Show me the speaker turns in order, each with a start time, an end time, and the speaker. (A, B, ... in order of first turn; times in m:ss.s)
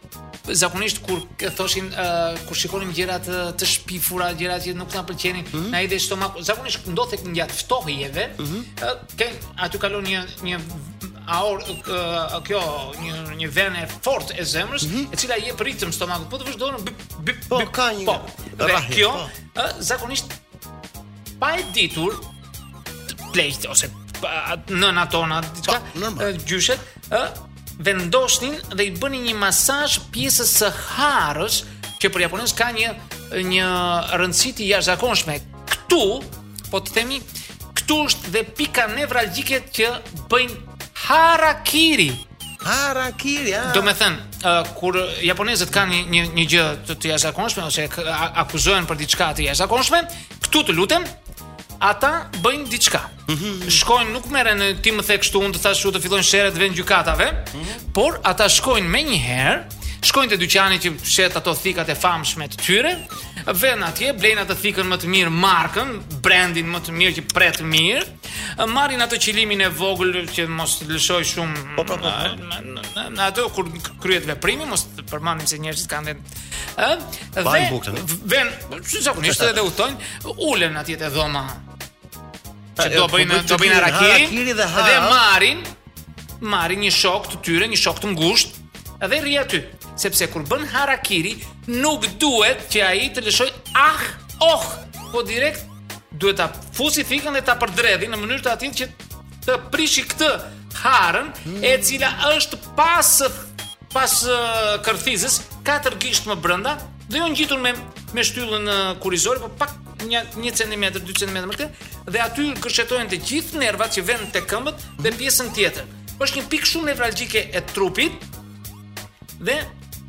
0:00.5-0:20.4 A
0:05.5-0:05.8 B
0:08.4-0:08.7 B
0:14.8-0:15.1 B
0:17.5-0:19.3 B
0:21.4-0:22.2 A
0:23.3-0:42.3 A
0:25.7-0:26.3 B
0:42.6-0:44.0 B
0:43.6-0:51.1 A
0:51.8-0:53.1 A
0:53.3-0:53.8 B
0:53.6-1:16.2 A
0:57.5-0:57.8 B
1:11.8-1:12.4 B
1:16.8-1:21.6 A
1:17.4-1:18.1 B
1:19.3-1:19.6 B
1:22.8-1:25.2 B
1:22.8-1:25.7 A
1:26.4-1:38.9 A
1:39.4-1:58.2 A
1:41.5-1:42.0 B
1:59.4-1:59.7 A